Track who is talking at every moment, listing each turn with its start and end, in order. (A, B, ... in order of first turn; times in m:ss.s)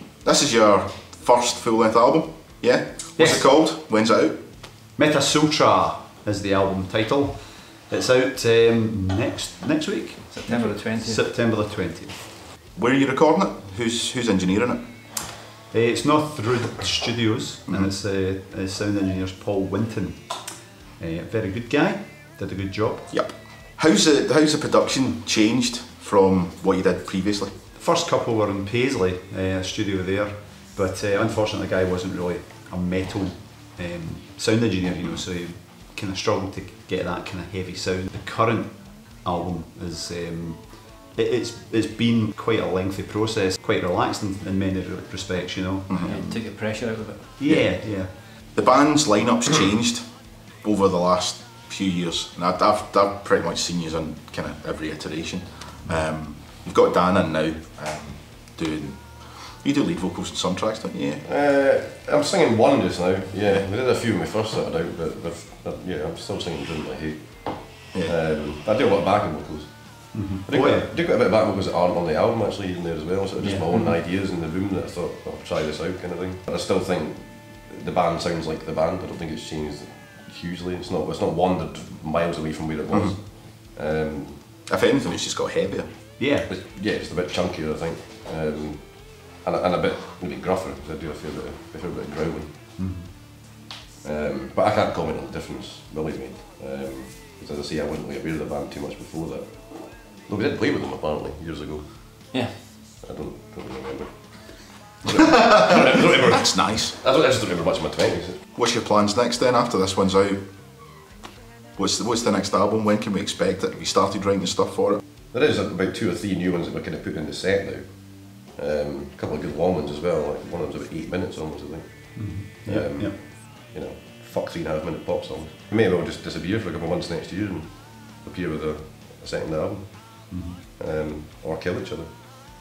0:00.2-0:04.4 A
0:03.2-0:03.4 B
0:05.0-0:12.2 B
0:10.3-0:11.2 C
0:12.7-0:14.8 A
0:15.7-0:20.3 B
0:17.7-0:17.9 A
0:21.0-0:23.1 B
0:23.1-0:27.6 A
0:27.7-0:46.5 B
0:45.9-0:46.2 A
0:46.0-0:47.4 C
0:47.4-0:48.2 B
0:47.4-1:01.2 A
1:01.2-1:24.5 D
1:10.1-1:10.9 B
1:13.4-1:13.7 C
1:13.4-1:13.9 B
1:24.7-1:26.0 A
1:26.2-1:26.5 B
1:26.5-1:32.5 D
1:32.8-1:33.1 B
1:34.0-1:42.3 D
1:42.3-1:42.6 C
1:43.0-1:48.4 D
1:45.4-1:47.0 A
1:48.5-1:50.5 A
1:51.8-1:55.0 A
1:55.3-2:12.1 D
2:02.2-2:03.2 B
2:10.3-2:10.6 B